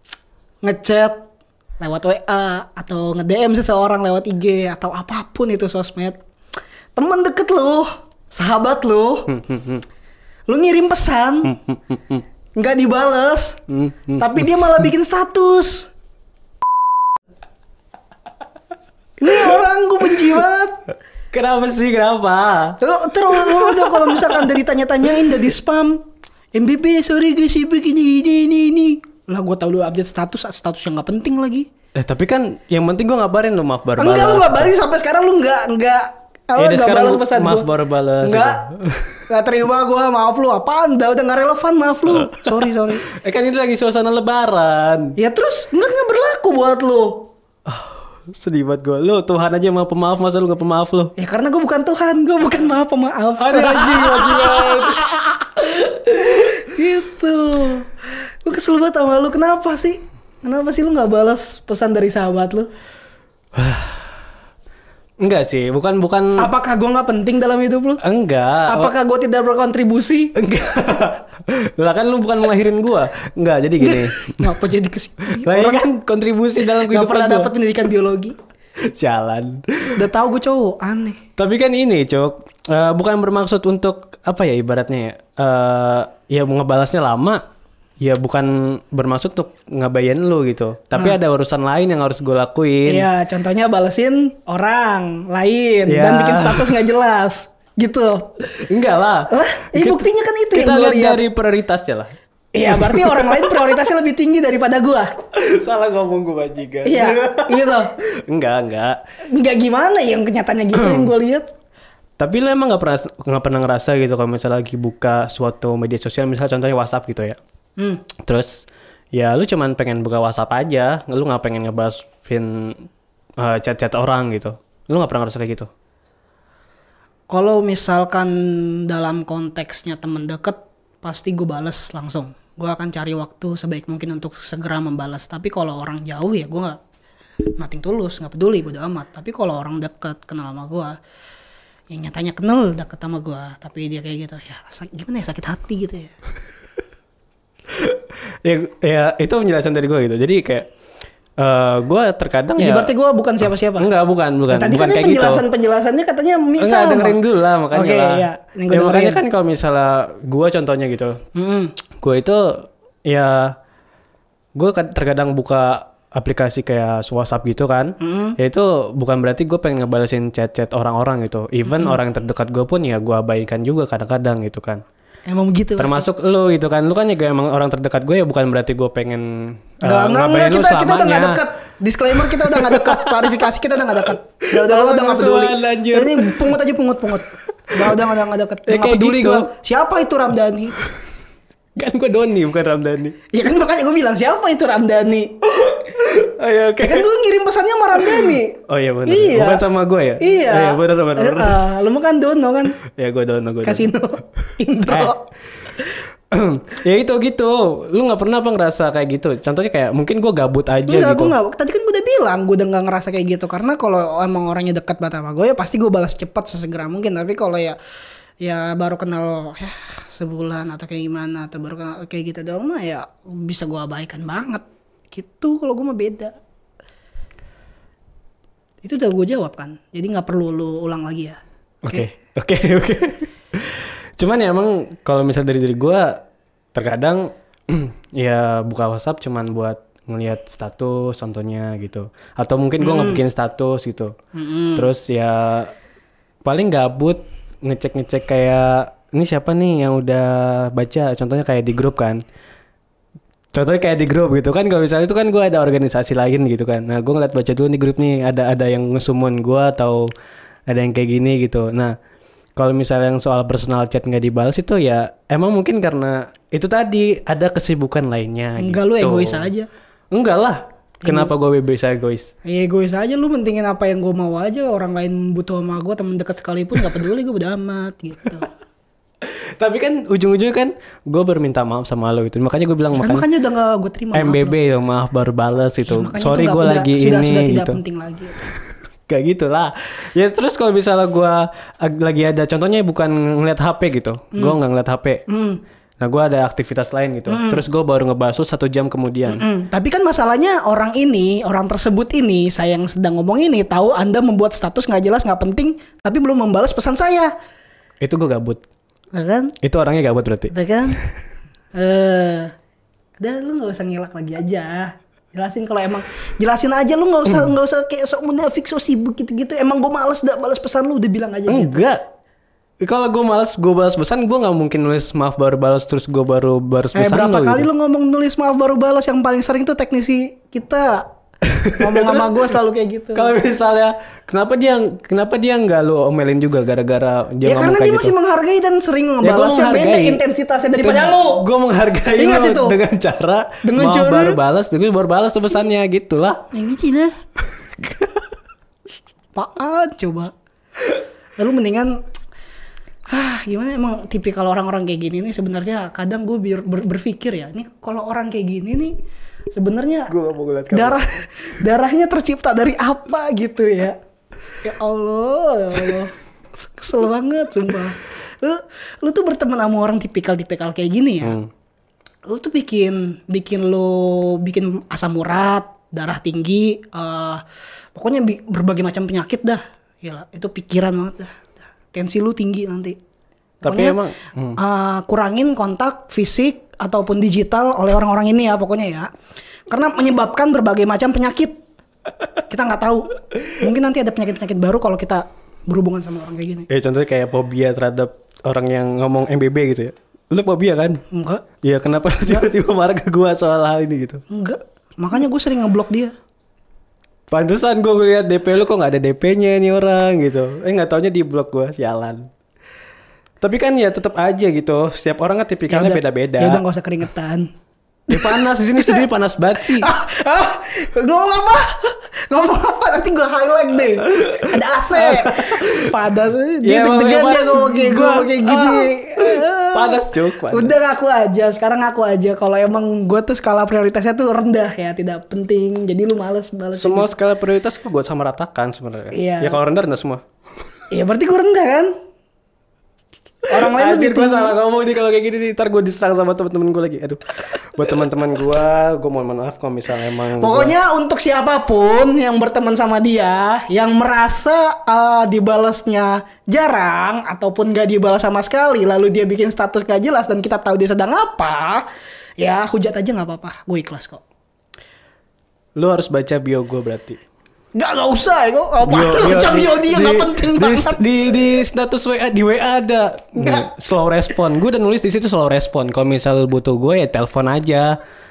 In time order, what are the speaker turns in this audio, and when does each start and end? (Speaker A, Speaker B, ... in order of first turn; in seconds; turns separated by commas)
Speaker A: 0.6-1.2, Speaker A: 1.8-6.2, Speaker A: 7.0-9.4, Speaker B: 9.3-9.8, Speaker A: 10.5-11.6, Speaker B: 11.5-12.2, Speaker A: 12.6-13.6, Speaker B: 13.7-14.8, Speaker A: 14.2-15.9, Speaker A: 19.2-20.8, Speaker B: 21.3-24.4, Speaker A: 22.8-26.0, Speaker A: 26.5-31.7, Speaker B: 31.9-34.7, Speaker A: 34.0-37.7, Speaker B: 36.6-39.3, Speaker A: 38.2-38.6, Speaker A: 39.3-43.1, Speaker B: 42.2-45.1, Speaker A: 45.2-47.3, Speaker B: 47.7-51.1, Speaker A: 51.2-62.7, Speaker B: 53.4-55.0, Speaker B: 63.5-64.0, Speaker B: 65.2-66.5, Speaker A: 66.4-68.0, Speaker B: 68.0-68.9, Speaker A: 68.7-70.3, Speaker B: 70.3-74.5, Speaker A: 73.8-75.8, Speaker B: 75.3-77.5, Speaker A: 76.7-78.4, Speaker B: 78.8-80.1, Speaker A: 80.0-81.2, Speaker B: 81.4-87.4, Speaker B: 88.0-93.1, Speaker A: 92.9-98.3, Speaker B: 95.9-96.9, Speaker B: 98.5-102.1, Speaker A: 99.3-101.2, Speaker A: 102.5-105.2, Speaker B: 102.7-103.8, Speaker B: 105.3-109.0, Speaker A: 106.8-108.0, Speaker A: 109.3-111.5, Speaker B: 110.7-111.1, Speaker B: 112.2-117.4, Speaker A: 117.8-118.0, Speaker B: 118.2-125.7, Speaker A: 127.3-136.8, Speaker A: 137.6-140.9, Speaker A: 141.9-146.1, Speaker B: 147.7-150.7, Speaker B: 151.4-152.9, Speaker A: 152.6-153.9, Speaker B: 153.8-155.4, Speaker A: 154.5-157.2, Speaker B: 156.6-161.2, Speaker A: 157.7-159.2, Speaker A: 161.3-161.8, Speaker B: 162.0-163.6, Speaker B: 164.6-174.8, Speaker A: 168.0-168.4, Speaker A: 175.3-176.0, Speaker B: 175.8-181.4, Speaker A: 179.8-190.8, Speaker B: 182.2-183.4, Speaker B: 184.5-186.5, Speaker B: 187.7-188.0, Speaker B: 188.7-189.5, Speaker B: 191.8-193.2, Speaker A: 193.3-195.3, Speaker B: 195.6-197.1, Speaker A: 196.8-199.6, Speaker B: 198.0-201.6, Speaker A: 200.2-202.8, Speaker B: 202.9-203.9, Speaker A: 203.6-205.2, Speaker B: 204.9-205.1, Speaker B: 206.3-211.3, Speaker A: 210.9-217.8, Speaker A: 218.4-226.4, Speaker A: 228.8-231.4, Speaker B: 231.8-236.2, Speaker B: 236.7-244.1, Speaker A: 242.8-243.2, Speaker A: 244.3-244.9, Speaker B: 244.8-245.7, Speaker B: 246.4-252.2, Speaker B: 253.5-260.1, Speaker B: 260.7-262.0, Speaker B: 262.6-269.5, Speaker A: 268.6-269.7, Speaker B: 270.1-272.3, Speaker A: 271.0-271.3, Speaker A: 272.4-278.5, Speaker B: 279.2-283.2, Speaker A: 282.9-284.6, Speaker B: 284.1-287.8, Speaker A: 285.9-288.4, Speaker B: 289.1-295.2, Speaker A: 295.3-295.6, Speaker B: 296.0-299.4, Speaker A: 297.3-297.6, Speaker A: 299.3-307.3, Speaker B: 308.0-308.6, Speaker A: 309.1-309.6, Speaker B: 309.6-310.5, Speaker A: 310.5-311.0, Speaker A: 311.7-312.5, Speaker A: 313.2-321.9, Speaker B: 321.5-322.0, Speaker B: 322.8-327.7, Speaker A: 326.9-331.1, Speaker B: 331.4-332.3, Speaker A: 331.7-333.4, Speaker B: 333.1-338.1, Speaker A: 337.4-341.4, Speaker B: 339.2-340.2, Speaker B: 340.8-346.5, Speaker A: 342.1-342.8, Speaker A: 343.6-344.4, Speaker A: 346.5-347.1, Speaker B: 347.8-348.1, Speaker A: 349.3-350.3, Speaker A: 351.4-351.9, Speaker A: 353.1-358.9, Speaker A: 359.5-360.1, Speaker B: 360.1-361.0, Speaker A: 360.7-364.0, Speaker A: 364.6-366.1, Speaker A: 366.8-371.4, Speaker B: 371.2-371.5, Speaker A: 372.2-377.4, Speaker A: 377.9-383.0, Speaker A: 383.6-384.0, Speaker B: 383.6-384.6, Speaker A: 384.6-389.1, Speaker A: 389.7-391.6, Speaker A: 392.5-396.7, Speaker B: 396.7-401.0, Speaker A: 401.1-401.4, Speaker B: 401.6-404.2, Speaker A: 404.3-406.1, Speaker B: 407.3-412.3, Speaker B: 413.4-416.6, Speaker A: 415.7-417.5, Speaker B: 418.1-419.9, Speaker A: 418.1-419.1, Speaker A: 419.6-437.1, Speaker B: 424.4-425.9, Speaker B: 426.6-430.7, Speaker B: 436.7-440.2, Speaker A: 439.1-439.6, Speaker A: 440.9-441.9, Speaker A: 443.5-444.6, Speaker B: 443.5-450.7, Speaker A: 450.4-461.9, Speaker A: 462.4-464.2, Speaker B: 465.8-467.2, Speaker A: 467.8-471.0, Speaker B: 468.9-478.0, Speaker A: 473.4-473.7